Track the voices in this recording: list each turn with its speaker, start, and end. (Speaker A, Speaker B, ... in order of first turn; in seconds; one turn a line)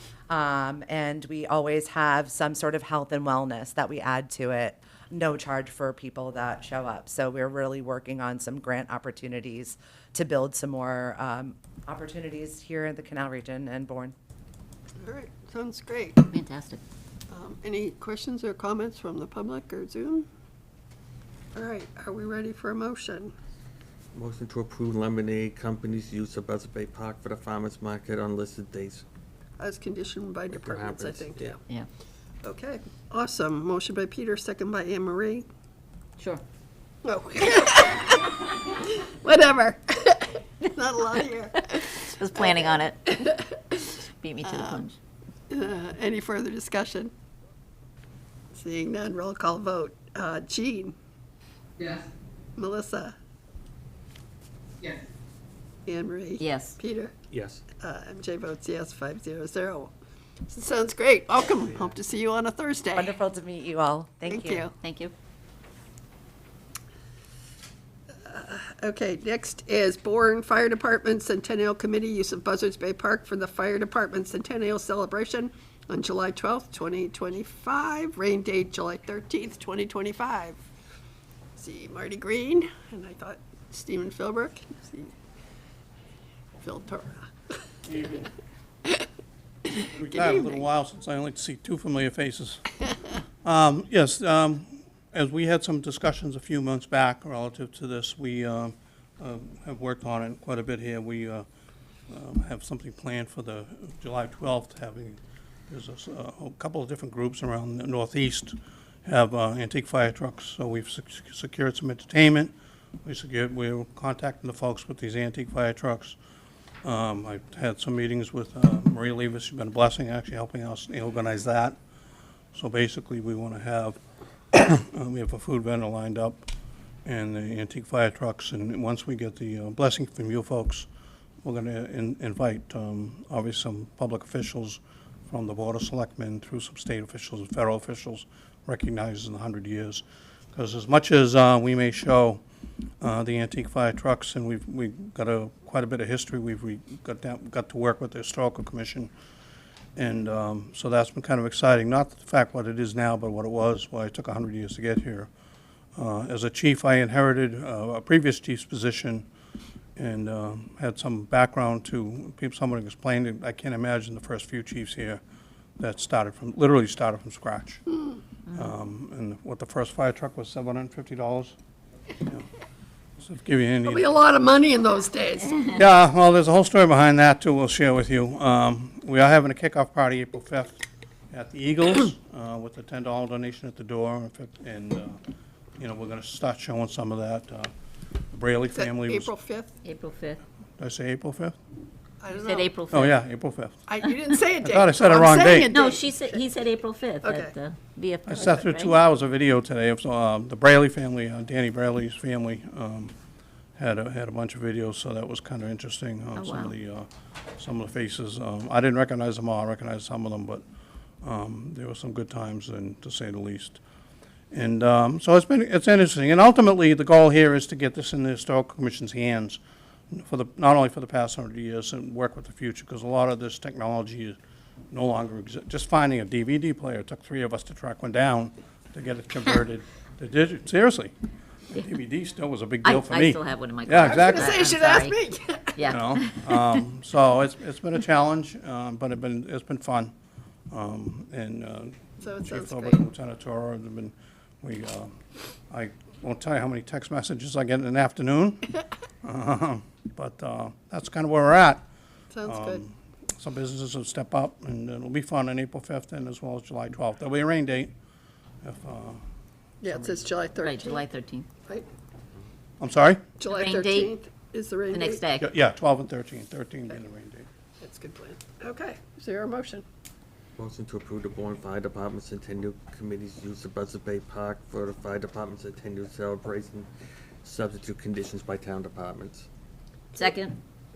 Speaker A: 0.3-14.2
Speaker B: 15.0-16.3
Speaker C: 16.3-16.8
Speaker B: 17.3-20.3
Speaker B: 21.6-23.3
Speaker D: 24.1-29.0
Speaker B: 29.6-31.6
Speaker D: 30.5-31.6
Speaker B: 32.4-35.5
Speaker B: 37.0-42.8
Speaker C: 42.0-45.0
Speaker B: 44.4-44.9
Speaker B: 45.5-47.1
Speaker B: 48.5-50.9
Speaker B: 52.6-53.1
Speaker B: 55.9-57.1
Speaker C: 56.4-56.8
Speaker D: 57.3-57.6
Speaker B: 57.8-59.9
Speaker B: 60.5-63.2
Speaker A: 63.0-64.6
Speaker B: 64.3-64.7
Speaker C: 64.8-65.1
Speaker B: 68.2-80.6
Speaker B: 81.6-85.1
Speaker B: 86.6-87.6
Speaker E: 87.9-88.3
Speaker E: 89.8-92.7
Speaker B: 90.2-90.6
Speaker E: 93.4-101.5
Speaker E: 102.1-112.5
Speaker E: 113.0-116.2
Speaker E: 116.8-121.8
Speaker E: 122.5-124.0
Speaker E: 124.5-126.5
Speaker E: 127.0-130.9
Speaker E: 131.4-142.4
Speaker E: 143.0-149.1
Speaker E: 150.0-155.3
Speaker E: 156.0-159.2
Speaker E: 160.0-165.2
Speaker E: 165.8-167.8
Speaker E: 168.5-171.6
Speaker E: 172.2-172.5
Speaker E: 173.2-174.1
Speaker B: 173.8-175.8
Speaker E: 175.7-185.2
Speaker E: 185.8-187.7
Speaker E: 188.3-189.3
Speaker B: 188.8-189.8
Speaker C: 189.8-190.4
Speaker E: 190.8-191.6
Speaker B: 192.2-192.8
Speaker C: 192.3-193.2
Speaker E: 192.9-193.8
Speaker B: 193.9-196.4
Speaker E: 194.6-195.7
Speaker C: 195.7-198.9
Speaker B: 197.2-197.5
Speaker E: 198.3-203.1
Speaker E: 203.8-210.6
Speaker C: 206.3-206.7
Speaker E: 211.2-213.8
Speaker E: 214.5-219.6
Speaker E: 220.1-224.4
Speaker E: 224.9-231.1
Speaker E: 231.7-234.6
Speaker C: 232.8-235.2
Speaker B: 234.0-235.9
Speaker C: 235.8-236.6
Speaker E: 235.9-240.1
Speaker E: 240.7-245.1
Speaker B: 242.2-243.0
Speaker E: 245.7-251.8
Speaker B: 252.3-252.8
Speaker E: 252.4-257.9
Speaker E: 258.6-259.2
Speaker B: 259.8-261.1
Speaker E: 259.9-260.2
Speaker C: 260.6-261.4
Speaker E: 262.8-263.2
Speaker B: 263.4-265.3
Speaker C: 263.5-264.1
Speaker C: 264.9-265.5
Speaker E: 265.4-267.5
Speaker B: 267.8-269.9
Speaker D: 270.6-276.9
Speaker D: 277.4-279.5
Speaker C: 280.2-280.6